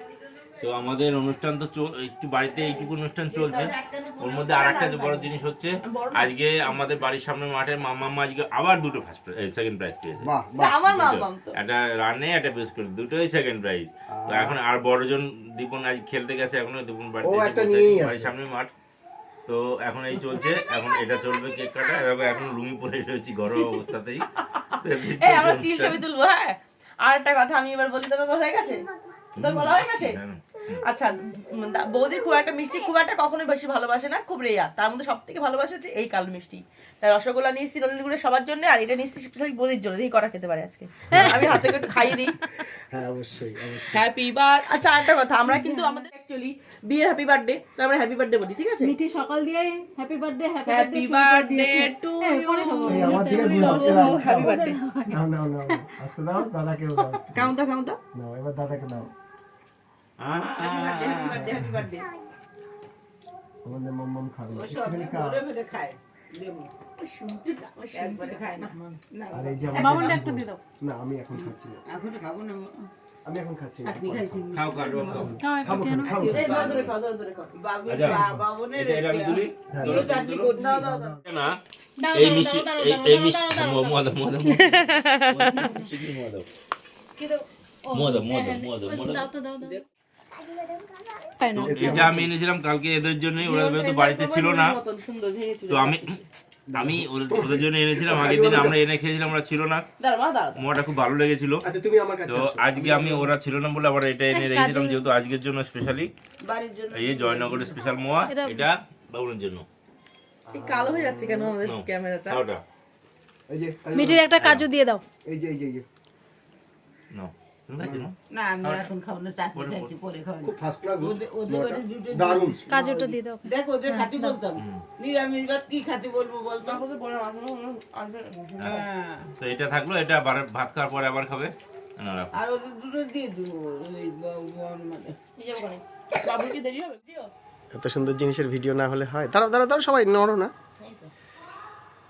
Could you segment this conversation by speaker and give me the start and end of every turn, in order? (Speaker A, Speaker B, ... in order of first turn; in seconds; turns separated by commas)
Speaker A: 0.6-10.3, Speaker B: 3.3-3.7, Speaker C: 3.4-5.3, Speaker B: 4.3-4.6, Speaker C: 5.9-6.9, Speaker D: 10.2-10.7, Speaker C: 10.6-11.5, Speaker A: 10.8-18.7, Speaker D: 14.1-14.6, Speaker D: 17.2-18.3, Speaker A: 19.5-24.3, Speaker C: 24.4-30.2, Speaker A: 24.8-26.0, Speaker A: 29.4-30.8, Speaker C: 30.8-42.4, Speaker E: 41.1-41.7, Speaker D: 41.2-41.5, Speaker D: 42.7-44.1, Speaker C: 43.9-48.9, Speaker E: 45.5-46.1, Speaker E: 48.8-55.8, Speaker C: 50.7-54.8, Speaker D: 52.9-54.6, Speaker D: 55.1-57.5, Speaker C: 57.3-58.0, Speaker D: 58.1-59.1, Speaker A: 60.2-61.5, Speaker C: 60.6-62.1, Speaker D: 63.6-65.4, Speaker B: 64.5-66.7, Speaker C: 67.0-69.0, Speaker B: 67.9-70.0, Speaker D: 69.3-71.8, Speaker E: 69.7-70.6, Speaker B: 71.3-72.9, Speaker D: 73.2-76.9, Speaker B: 73.8-75.4, Speaker A: 74.5-75.3, Speaker E: 75.4-76.2, Speaker B: 75.9-76.9, Speaker C: 76.3-77.6, Speaker B: 77.5-81.2, Speaker A: 77.9-80.6, Speaker D: 78.1-78.4, Speaker D: 79.7-81.2, Speaker C: 80.5-80.9, Speaker A: 81.2-81.6, Speaker E: 82.0-84.2, Speaker A: 82.1-86.5, Speaker C: 84.6-85.7, Speaker E: 85.5-85.9, Speaker E: 87.2-89.8, Speaker A: 87.9-89.3, Speaker E: 91.4-92.1, Speaker D: 91.5-92.3, Speaker A: 91.6-94.8, Speaker C: 93.4-96.2, Speaker A: 95.7-96.2, Speaker D: 96.7-98.8, Speaker A: 96.8-99.8, Speaker C: 100.0-100.7, Speaker A: 100.6-101.6, Speaker D: 101.7-103.3, Speaker A: 102.3-106.1, Speaker E: 104.3-105.1, Speaker B: 106.5-107.8, Speaker A: 106.9-109.7, Speaker E: 108.3-108.7, Speaker D: 110.5-111.6, Speaker C: 110.5-112.4, Speaker A: 111.6-112.6, Speaker D: 113.5-114.2, Speaker E: 114.0-115.0, Speaker A: 114.4-114.7, Speaker D: 115.3-115.9, Speaker A: 117.1-118.9, Speaker D: 117.8-118.1, Speaker B: 118.3-126.8, Speaker A: 119.5-119.9, Speaker D: 120.4-122.6, Speaker E: 122.7-124.4, Speaker A: 124.6-124.8, Speaker C: 126.6-128.4, Speaker B: 128.5-129.3, Speaker A: 128.6-128.8, Speaker A: 129.4-132.3, Speaker B: 132.3-135.2, Speaker C: 135.4-137.3, Speaker D: 137.7-140.5, Speaker C: 140.8-141.1